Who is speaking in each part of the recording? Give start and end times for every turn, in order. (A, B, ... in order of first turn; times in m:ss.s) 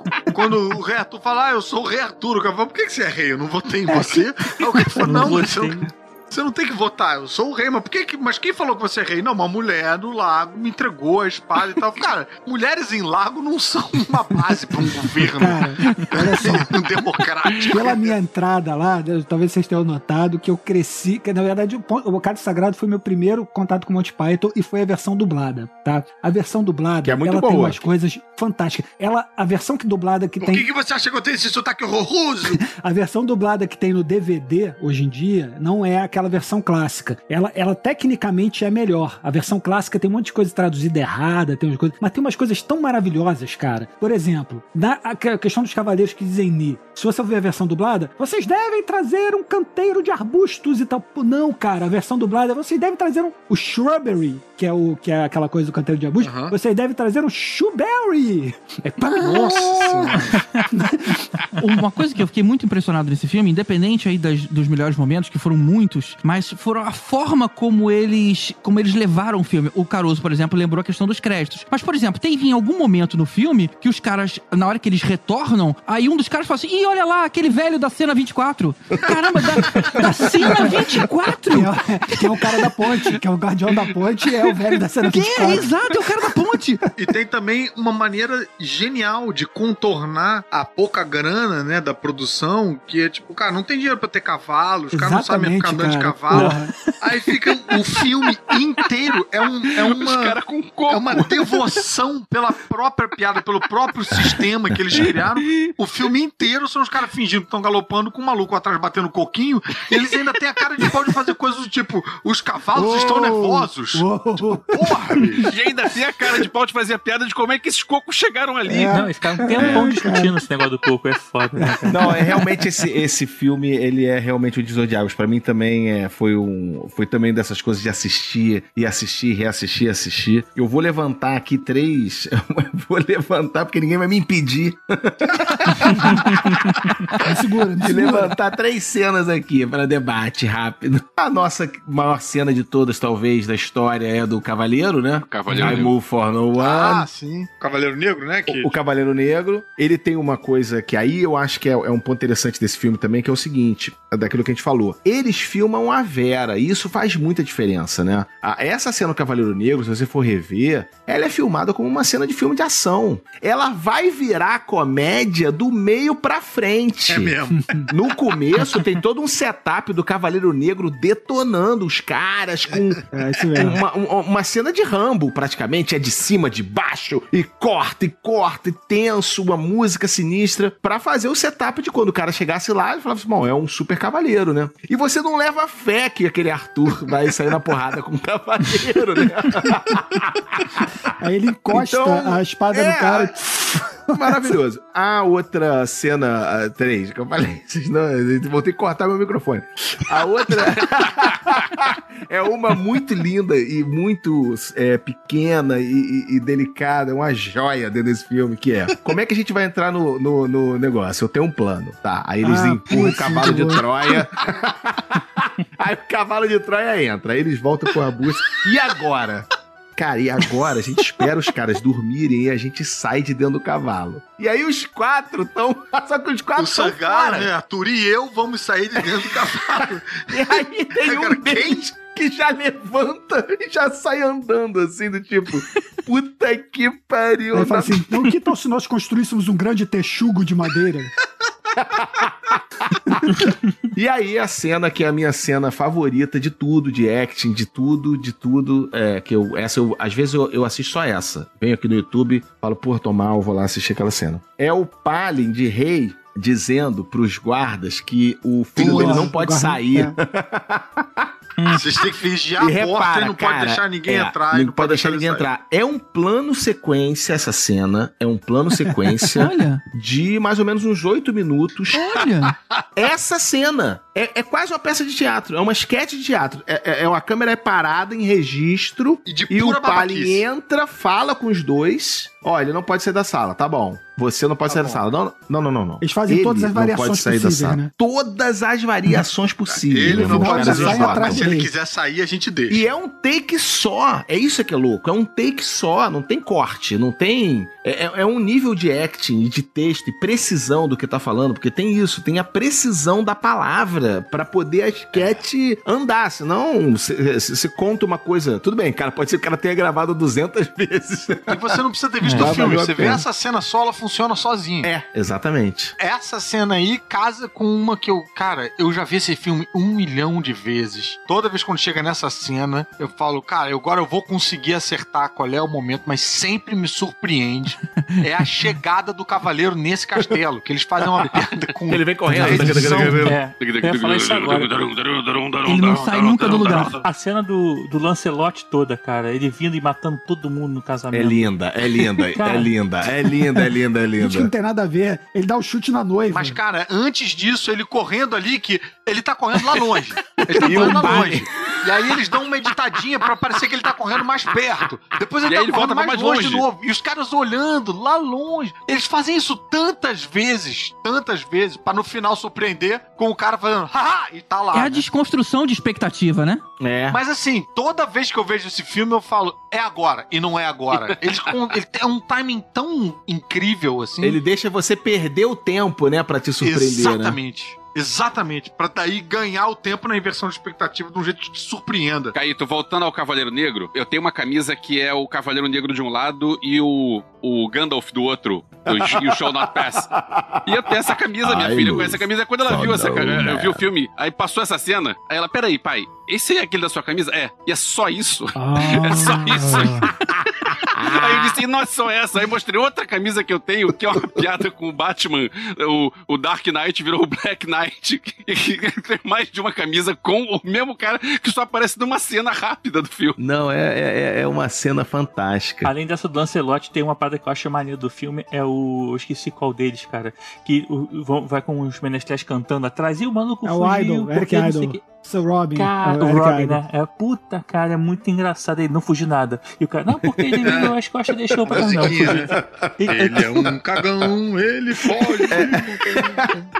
0:00.3-0:18.1 A
0:03.9-0:05.4 B
0:05.0-0:05.8 C
0:14.8-0:16.8 B
0:17.6-0:30.7 B
0:27.0-0:27.8 D
0:30.4-0:32.6 A
0:32.5-1:01.3 B
0:56.2-0:56.5 A
0:59.2-1:00.4 A
1:01.6-1:21.7 E
1:19.9-1:25.7 B
1:25.1-1:26.8 E
1:27.0-1:54.0 A
1:34.9-1:37.0 B
1:39.8-1:41.6 F
1:52.7-1:55.5 B
1:54.6-1:55.5 A
1:55.4-1:59.0 F
1:58.7-2:00.4 B
1:58.8-2:02.2 C
1:59.6-1:59.9 D
2:01.6-2:02.6 B
2:01.9-2:16.6 D
2:17.2-2:18.3 B
2:17.8-2:27.1 D
2:25.2-2:25.9 F
2:25.5-2:25.8 C
2:26.6-2:28.7 A
2:28.5-2:47.3 D
2:47.1-2:47.8 A
2:47.6-2:47.9 B
2:47.9-2:53.0 D
2:53.1-2:53.8 B
2:53.6-3:11.1 D
3:11.2-3:14.5 B
3:11.7-3:13.4 D
3:14.1-3:47.5 D
3:32.4-3:33.8 B
3:46.6-3:50.3 A
3:49.5-3:58.0 D
3:51.0-3:51.8 A
3:57.5-4:01.1 B
4:01.8-4:02.6 D
4:03.1-4:03.4 B
4:03.9-4:21.8 D
4:18.7-4:20.1 B
4:21.7-4:25.5 A
4:22.6-4:32.3 D
4:29.4-4:29.8 E
4:31.9-4:32.5 E
4:33.0-4:51.4 D
4:39.2-4:40.4 A
4:44.7-4:45.0 A
4:46.0-4:47.9 B
4:49.7-4:52.8 A
4:50.1-4:51.7 B
4:52.7-5:11.8 D
5:11.5-5:14.9 A
5:12.2-5:12.6 C
5:12.4-5:13.2 D
5:14.8-5:15.9 D
5:16.0-5:33.3 A
5:31.9-5:33.4 D
5:32.3-5:34.7 C
5:33.6-5:37.0 F
5:35.6-5:37.0 E
5:36.4-5:41.5 C
5:41.1-5:44.5 D
5:42.1-5:42.7 C
5:44.2-5:46.6 B
5:46.3-6:05.0 A
5:50.6-5:52.1 D
5:50.7-5:51.2 B
5:55.5-5:56.6 F
6:04.7-6:06.6 E
6:06.8-6:07.2 D
6:07.1-6:14.4 A
6:14.2-6:17.4 D
6:16.6-6:22.3 A
6:22.3-6:30.1 F
6:28.9-6:33.8 D
6:30.6-6:40.1 F
6:38.5-6:40.1 B
6:39.6-6:41.6 D
6:41.0-6:53.4 F
6:53.4-6:55.9 D
6:55.8-7:05.1 C
7:03.6-7:06.8 B
7:05.7-7:13.4 C
7:10.3-7:10.8 D
7:10.6-7:10.9 A
7:11.6-7:12.3 D
7:11.7-7:16.5 A
7:13.1-7:13.4 D
7:15.5-7:16.5 D